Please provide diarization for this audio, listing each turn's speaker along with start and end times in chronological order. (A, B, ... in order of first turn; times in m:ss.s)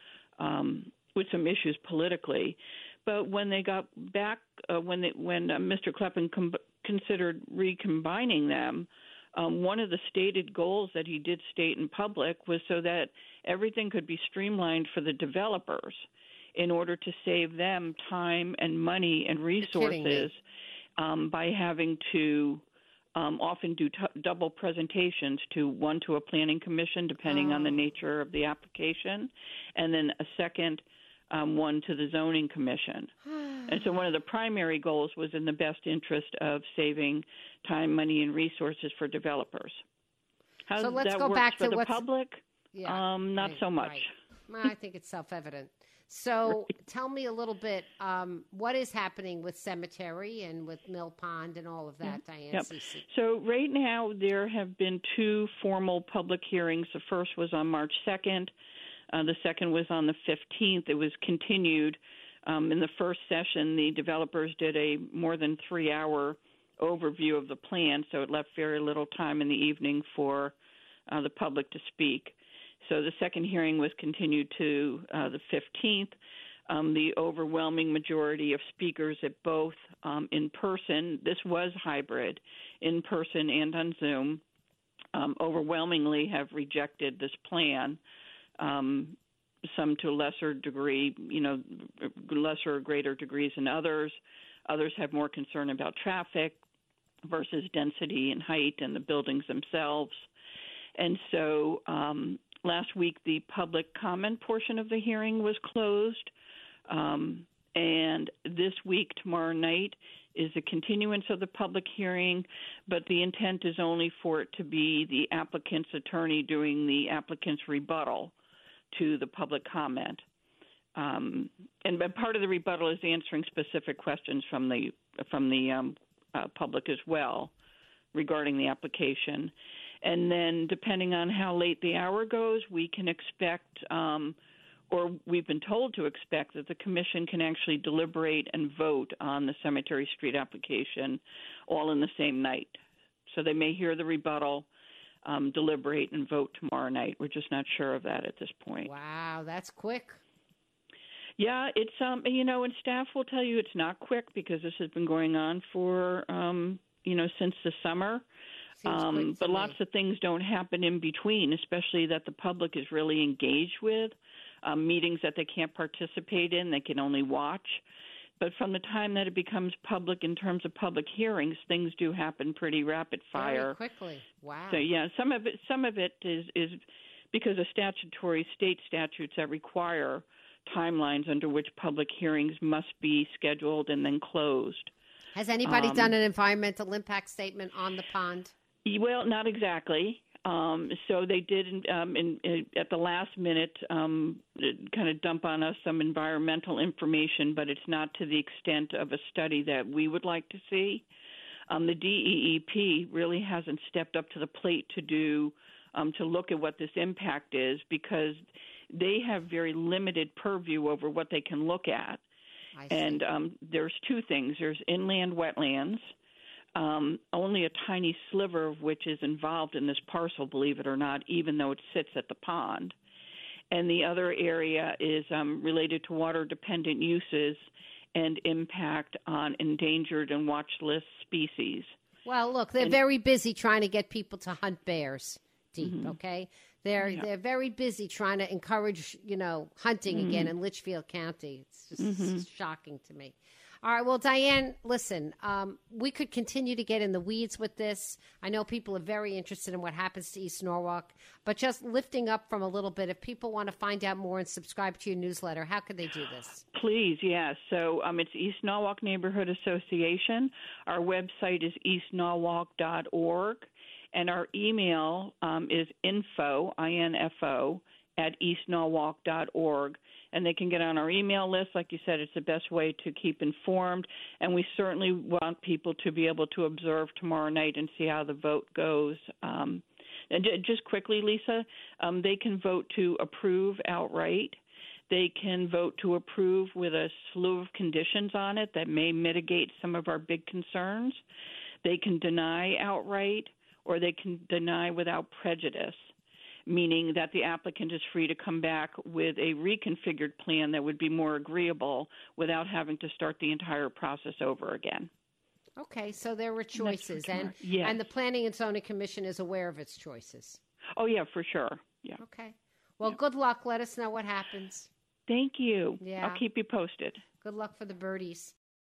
0:00.4-0:16.0 A
0:16.6-0:20.4 A
0:19.6-0:20.3 B
0:21.0-0:22.6 A
0:23.2-0:33.1 A
0:27.2-0:27.8 B
0:33.3-0:33.8 B
0:33.7-0:39.8 A
0:40.7-0:44.1 A
0:40.8-0:42.0 B
0:42.7-0:53.0 B
0:52.0-0:58.5 A
0:59.1-1:10.6 A
1:11.1-1:16.2 A
1:16.7-1:24.4 A
1:25.1-1:28.0 A
1:28.6-1:29.2 A
1:29.7-1:36.6 A
1:37.2-1:40.3 A
1:41.0-1:46.3 A
1:46.9-1:58.3 A
1:58.9-2:00.2 A
2:01.0-2:07.5 A
2:08.1-2:14.4 A
2:14.9-2:22.8 A
2:23.3-2:24.7 A
2:25.2-2:28.9 A
2:28.8-2:30.2 B
2:31.4-2:38.2 A
2:38.8-2:39.8 B
2:38.8-2:47.8 A
2:48.4-2:53.8 A
2:53.4-2:54.8 B
2:54.7-2:56.8 A
2:57.3-3:04.9 A
3:05.4-3:08.5 B
3:05.6-3:06.2 A
3:08.8-3:21.1 A
3:21.7-3:28.4 A
3:28.9-3:32.2 A
3:32.8-3:33.2 B
3:32.9-3:36.0 A
3:36.8-3:42.9 A
3:43.7-3:51.9 A
3:52.2-4:16.6 B
3:55.8-3:56.2 A
3:57.0-3:57.2 A
4:00.1-4:00.5 A
4:02.0-4:02.4 A
4:16.7-4:44.6 A
4:45.1-4:51.2 A
4:51.8-4:56.1 A
4:56.7-5:05.1 A
5:05.8-5:10.6 B
5:06.8-5:08.0 A
5:11.0-5:12.2 A
5:12.2-5:14.9 B
5:15.3-5:17.2 A
5:16.0-5:16.4 B
5:17.4-5:18.5 B